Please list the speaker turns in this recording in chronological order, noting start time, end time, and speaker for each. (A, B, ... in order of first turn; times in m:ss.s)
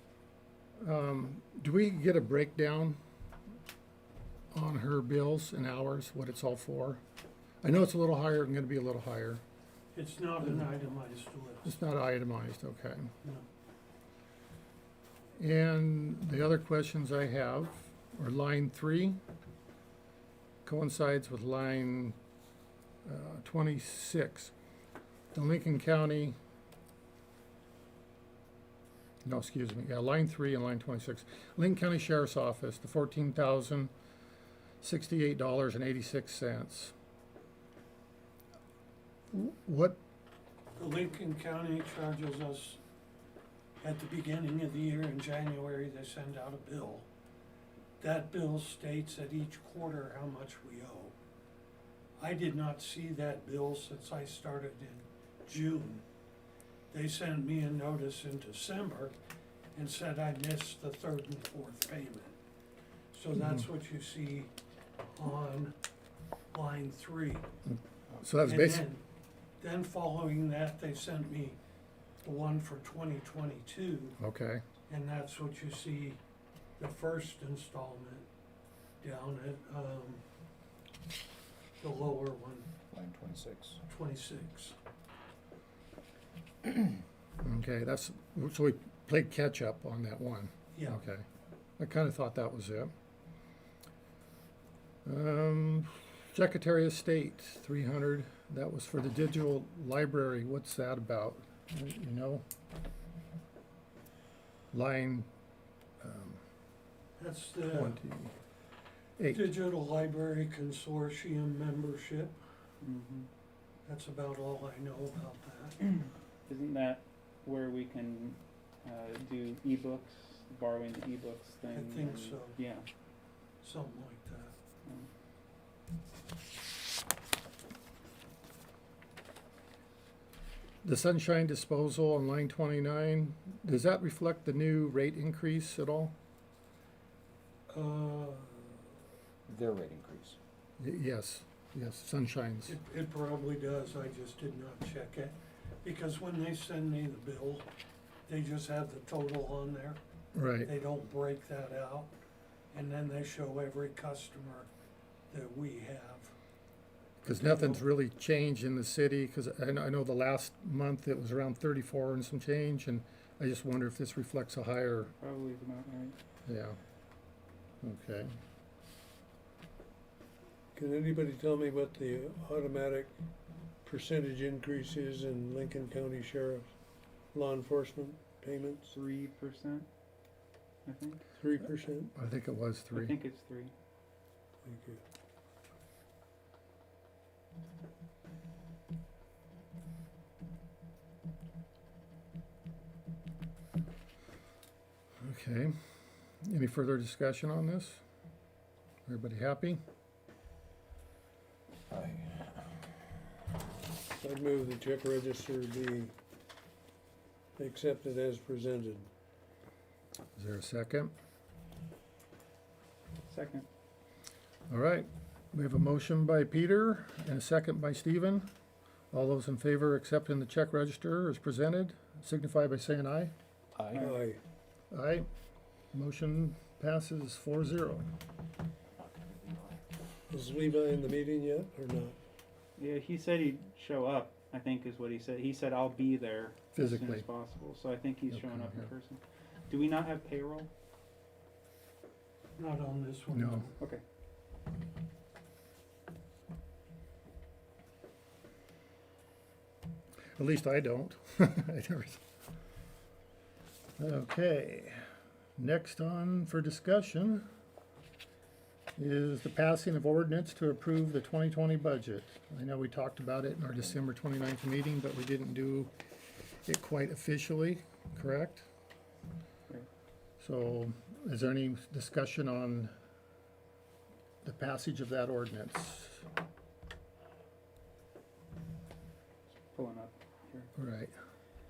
0:00.8-0:03.0 A
0:04.5-0:07.0 A
0:07.6-0:09.4 A
0:09.9-0:11.8 B
0:11.6-0:13.1 A
0:15.4-0:19.2 A
0:20.6-0:22.2 A
0:23.0-0:24.5 A
0:25.3-0:26.3 A
0:29.2-0:33.9 A
0:34.8-0:36.9 A
0:39.3-0:40.0 A
0:40.8-0:42.8 B
0:43.8-0:47.1 B
0:48.0-0:51.2 B
0:52.2-0:56.0 B
0:56.9-0:59.1 B
0:59.7-1:02.4 B
1:03.1-1:04.5 B
1:03.4-1:03.6 A
1:05.2-1:05.8 B
1:06.5-1:07.4 B
1:07.6-1:08.8 A
1:08.4-1:09.0 B
1:09.6-1:11.6 B
1:12.2-1:14.2 B
1:14.2-1:14.6 A
1:14.9-1:16.2 B
1:16.8-1:18.3 B
1:19.0-1:20.2 B
1:21.8-1:22.7 B
1:22.9-1:23.8 C
1:23.9-1:24.7 B
1:27.4-1:31.2 A
1:30.7-1:31.0 B
1:31.8-1:32.9 A
1:35.0-1:42.4 A
1:44.7-1:45.3 A
1:46.0-1:46.4 A
1:47.2-1:48.0 B
1:47.6-1:48.3 A
1:49.2-1:49.5 A
1:49.3-1:52.4 B
1:52.8-1:53.3 D
1:53.8-1:55.8 B
1:55.9-2:02.8 D
2:01.7-2:02.6 B
2:03.6-2:04.5 B
2:10.8-2:16.2 A
2:17.7-2:18.9 B
2:19.5-2:20.4 C
2:20.8-2:22.8 A
2:22.6-2:27.7 B
2:28.3-2:30.0 B
2:30.3-2:30.7 A
2:30.6-2:32.1 B
2:32.7-2:34.7 B
2:35.3-2:36.3 B
2:37.2-2:45.1 A
2:37.3-2:37.8 B
2:45.2-2:46.1 D
2:46.4-2:46.8 A
2:47.8-2:48.3 A
2:50.8-2:52.5 B
2:51.2-2:52.0 E
2:52.5-2:52.9 E
2:53.8-2:56.4 E
2:55.5-2:56.6 B
2:57.3-2:58.1 E
2:58.0-2:58.8 B
2:58.9-2:59.9 D
3:00.8-3:01.2 D
3:01.4-3:02.1 B
3:02.1-3:03.2 A
3:02.9-3:03.7 D
3:04.6-3:05.0 E
3:15.2-3:15.7 A
3:16.4-3:18.0 A
3:19.0-3:19.8 A
3:21.9-3:22.6 C
3:24.2-3:26.1 E
3:27.6-3:29.1 E
3:27.8-3:28.4 B
3:30.4-3:31.1 A
3:33.3-3:33.7 D
3:34.7-3:38.5 A
3:39.1-3:43.3 A
3:43.8-3:44.1 C
3:43.9-3:44.3 D
3:44.0-3:44.4 E
3:44.9-3:45.3 A
3:45.9-3:48.1 A
3:50.3-3:52.1 E
3:52.8-4:00.7 D
3:56.7-3:57.2 A
3:58.3-3:58.9 A
4:02.6-4:03.8 B
4:03.3-4:03.7 A
4:10.4-4:12.2 A
4:14.0-4:15.0 A
4:15.6-4:17.5 A
4:19.0-4:25.9 A
4:26.6-4:28.6 A
4:30.4-4:32.9 A
4:34.4-4:36.2 A
4:39.7-4:40.7 D
4:40.8-4:41.1 A